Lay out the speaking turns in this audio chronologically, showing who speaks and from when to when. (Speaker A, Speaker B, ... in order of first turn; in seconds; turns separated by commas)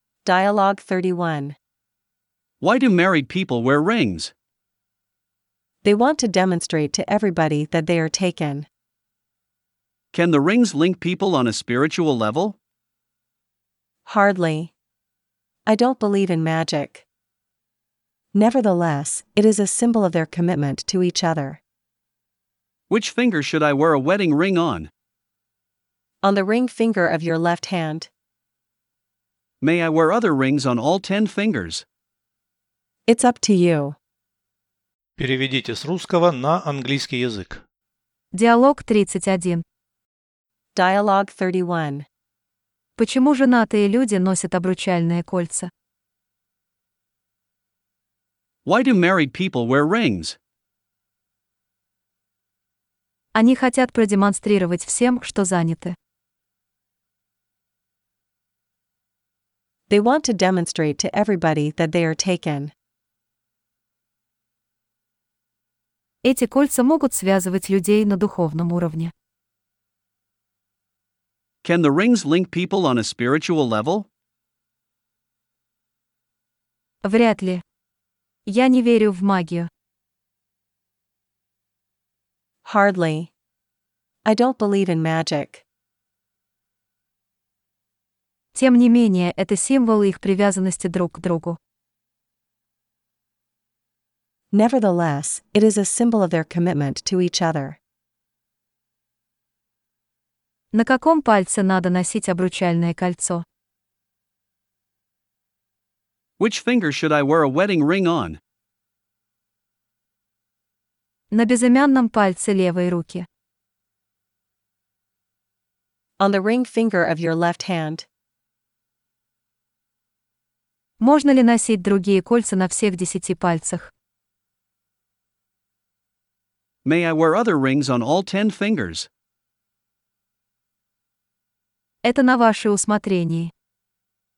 Speaker A: 0.2-1.6, Speaker B: 2.6-4.3, Speaker A: 5.8-8.7, Speaker B: 10.1-12.6, Speaker A: 14.1-14.7, Speaker A: 15.7-17.1, Speaker A: 18.3-21.6, Speaker B: 22.9-24.9, Speaker A: 26.2-28.1, Speaker B: 29.6-31.8, Speaker A: 33.1-34.0, Speaker C: 35.2-37.6, Speaker D: 38.3-39.6, Speaker A: 40.8-42.1, Speaker D: 43.0-45.7, Speaker B: 48.6-50.4, Speaker D: 53.3-56.0, Speaker A: 59.9-62.7, Speaker D: 66.2-69.1, Speaker B: 71.6-74.1, Speaker D: 77.0-77.6, Speaker D: 78.5-79.7, Speaker A: 82.6-83.3, Speaker A: 84.2-85.6, Speaker D: 88.5-91.6, Speaker A: 94.5-97.8, Speaker D: 100.7-103.5, Speaker B: 106.4-108.4, Speaker D: 111.3-113.3, Speaker A: 116.2-118.1, Speaker D: 121.0-123.9, Speaker B: 126.8-129.1, Speaker D: 132.0-133.5